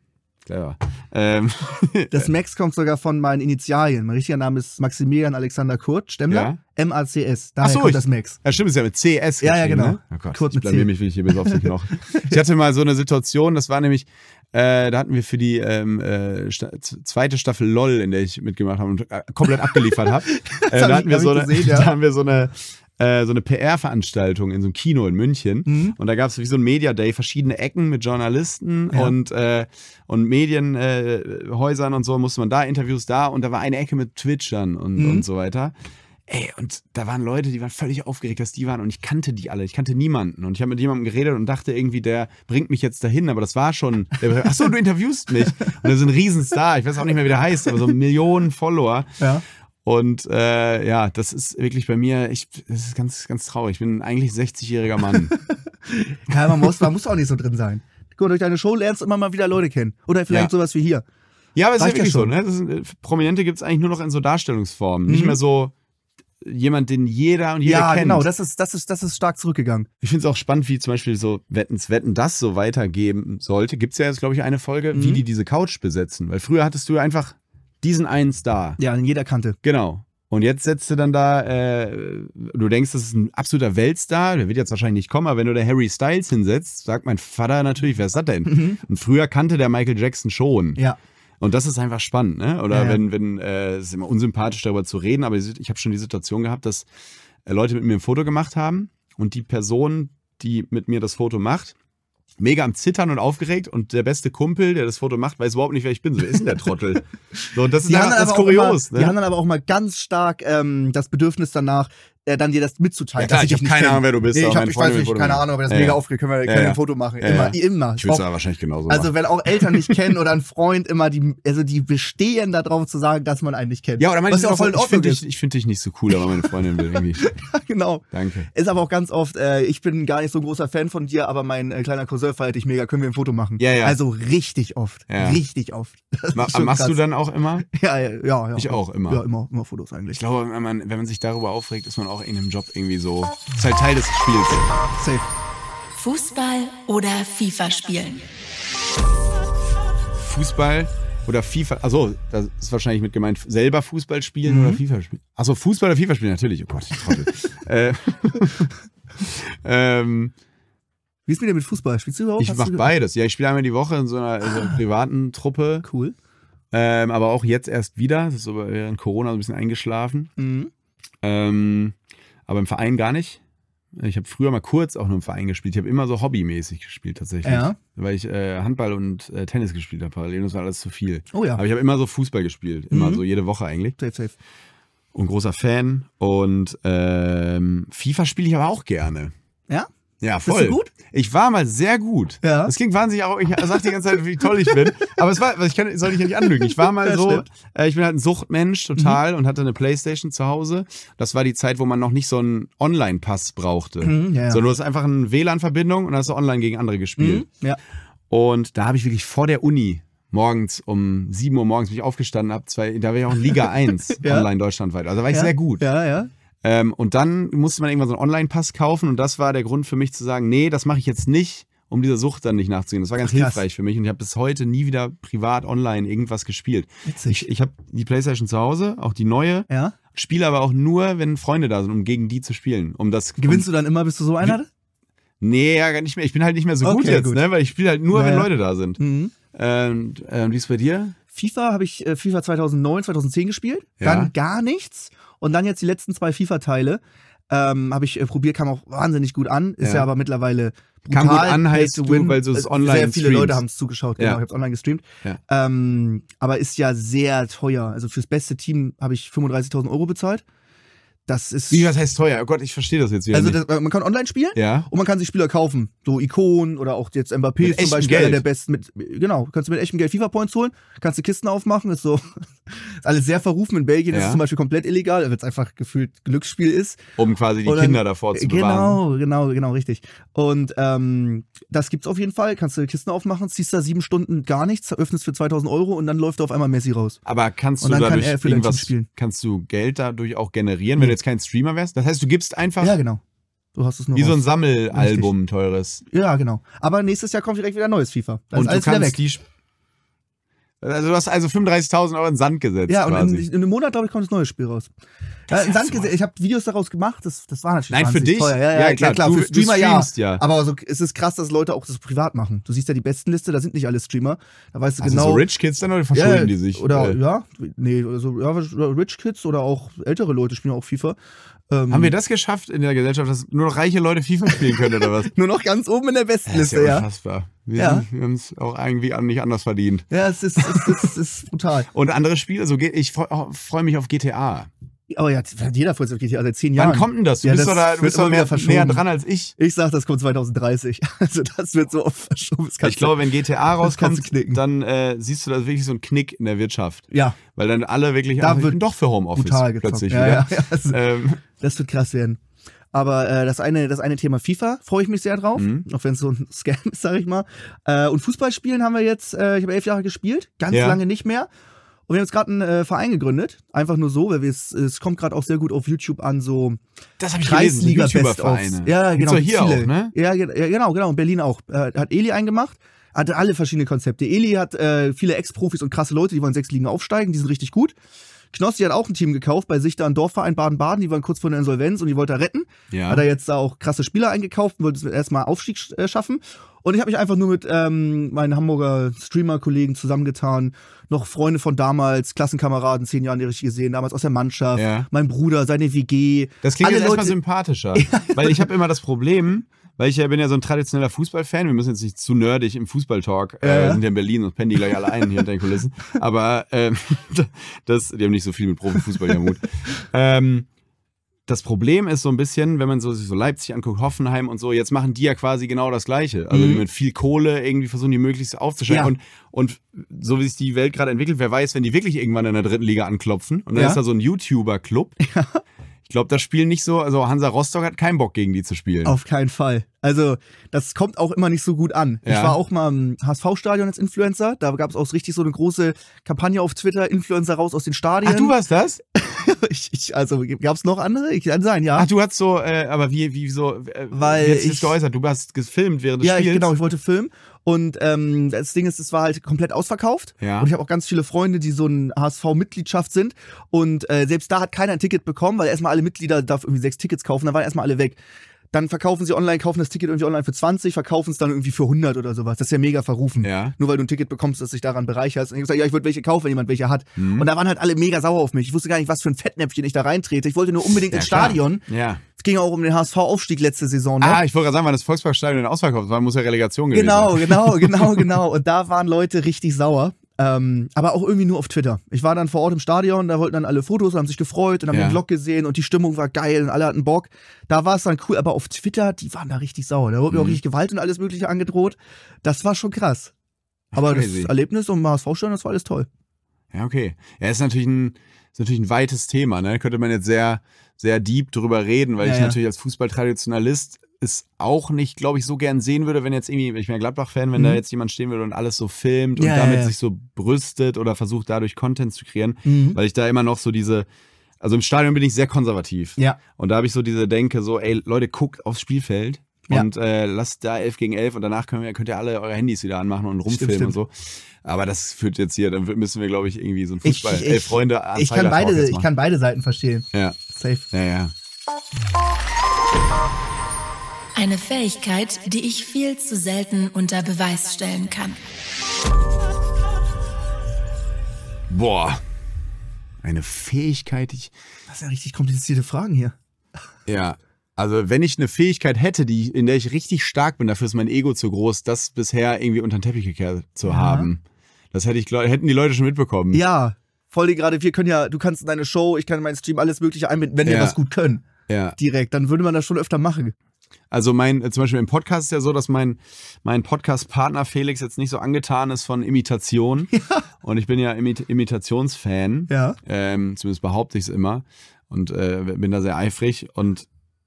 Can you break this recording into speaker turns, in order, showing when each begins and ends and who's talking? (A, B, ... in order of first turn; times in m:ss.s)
0:00.5-0:02.3 A
0:02.1-0:08.4 B
0:06.3-0:06.6 A
0:07.6-0:35.7 A
0:09.4-0:12.4 B
0:20.4-0:21.9 B
0:25.7-0:26.0 B
0:35.0-0:35.3 B
0:36.3-0:49.1 A
0:49.2-0:49.4 B
0:49.8-0:55.3 A
0:55.9-1:01.0 B
1:01.6-1:05.7 A
1:01.8-1:02.3 B
1:05.1-1:05.4 B
1:06.4-1:08.3 A
1:07.6-1:09.9 B
1:10.0-1:18.8 A
1:14.9-1:15.2 B
1:18.8-1:19.6 B
1:19.6-1:30.8 A
1:28.5-1:28.8 B
1:31.4-1:36.9 A
1:32.7-1:33.0 B
1:37.5-1:41.8 A
1:42.4-1:49.1 A
1:47.9-1:58.3 B
1:53.2-1:59.6 A
1:58.9-2:05.2 B
2:04.0-2:07.3 A
2:06.9-2:17.0 B
2:08.1-2:08.5 A
2:13.6-2:14.0 A
2:15.1-2:15.4 A
2:16.3-2:17.7 A
2:17.7-2:20.2 B
2:18.6-2:19.2 A
2:20.1-2:24.6 A
2:25.0-2:25.3 B
2:26.0-2:28.2 C
2:30.2-2:40.3 A
2:34.5-2:34.8 B
2:41.3-2:42.9 B
2:42.4-2:45.9 A
2:45.8-2:46.2 B
2:46.7-2:50.3 A
2:50.4-2:50.7 B
2:51.2-2:52.0 A
2:52.5-2:53.4 A
2:53.9-3:04.0 A
2:57.4-2:57.8 B
3:01.3-3:01.6 B
3:02.9-3:03.2 B
3:04.0-3:04.4 B
3:05.1-3:09.3 A
3:10.2-3:27.5 A
3:10.4-3:10.9 B
3:12.4-3:12.7 B
3:16.7-3:17.5 B
3:24.0-3:24.6 B
3:27.2-3:27.8 B
3:28.3-3:35.9 A
3:34.2-3:34.5 B
3:35.3-3:36.3 B
3:36.6-3:53.7 A
3:43.2-3:43.6 B
3:47.1-3:47.5 B
3:49.7-3:50.0 B
3:53.4-3:54.7 B
3:55.4-3:59.0 A
3:56.8-3:57.5 B
3:58.1-3:59.3 B
3:59.5-4:01.2 A
4:01.3-4:20.4 B
4:04.0-4:04.3 A
4:09.8-4:10.1 A
4:11.1-4:13.6 A
4:21.3-4:22.0 B
4:21.7-4:23.6 A
4:23.3-4:37.0 B
4:24.6-4:24.9 A
4:27.6-4:28.4 A
4:34.1-4:34.4 A
4:37.2-4:39.0 A
4:37.6-4:47.2 B
4:47.2-4:53.0 A
4:47.8-4:49.1 B
4:52.8-4:53.2 B
4:53.8-4:55.3 B
4:54.1-4:56.0 A
4:56.1-4:59.2 B
4:58.5-4:59.4 A
5:00.8-5:03.5 A
5:02.9-5:04.9 B
5:05.5-5:06.1 A
5:05.5-5:15.5 B
5:07.9-5:10.4 A
5:15.0-5:17.2 A
5:16.1-5:21.2 B
5:21.7-5:22.1 B
5:21.9-5:25.3 A
5:25.3-5:27.1 B
5:26.5-5:31.0 A
5:27.8-5:28.1 B
5:30.1-5:31.9 B
5:31.9-5:34.7 A
5:35.1-5:39.0 B
5:36.8-5:39.6 A
5:39.6-5:43.2 B
5:42.8-5:51.4 A
5:43.8-5:44.6 B
5:47.1-5:47.4 B
5:48.4-5:48.8 B
5:49.3-5:51.0 B
5:51.6-5:52.4 B
5:52.9-6:01.5 B
5:55.6-5:55.8 A
6:00.7-6:01.0 A
6:02.1-6:06.8 B
6:07.2-6:10.1 A
6:07.4-6:18.0 B
6:18.5-6:37.4 B
6:22.9-6:23.2 A
6:34.8-6:35.1 A
6:36.6-6:50.7 A
6:37.9-6:38.7 B
6:43.6-6:44.0 B
6:51.5-7:05.2 A
6:56.5-6:56.8 B
6:58.9-6:59.1 B
7:03.7-7:04.0 B
7:05.2-7:05.6 B
7:06.1-7:09.2 A
7:09.0-7:18.6 B
7:12.2-7:12.6 A
7:18.2-7:19.0 A
7:19.2-7:22.1 B
7:22.0-7:26.7 A
7:24.1-7:25.0 B
7:26.2-7:38.2 B
7:30.4-7:30.7 A
7:38.7-7:54.4 B
7:43.4-7:43.8 A
7:47.2-7:47.5 A
7:51.1-7:52.2 A
7:54.2-7:58.3 A
7:56.9-8:13.3 B
8:04.9-8:05.2 A
8:10.3-8:10.6 A
8:13.9-8:14.5 A
8:14.0-8:16.1 B
8:16.7-8:34.1 A
8:22.2-8:22.6 B
8:27.6-8:27.8 B
8:29.4-8:29.9 B
8:32.6-8:33.0 B
8:34.6-8:49.1 A
8:43.5-8:44.0 B
8:47.0-8:50.9 B
8:50.1-8:50.4 A
8:50.9-8:51.3 A
8:54.4-8:58.4 C
9:01.7-9:02.2 A
9:03.2-9:04.5 A
9:04.9-9:06.4 B
9:07.1-9:16.6 A
9:13.9-9:14.3 B
9:16.5-9:23.6 B
9:20.6-9:21.0 A
9:21.7-9:22.0 A
9:24.1-9:37.1 A
9:30.1-9:30.4 B
9:32.7-9:33.0 B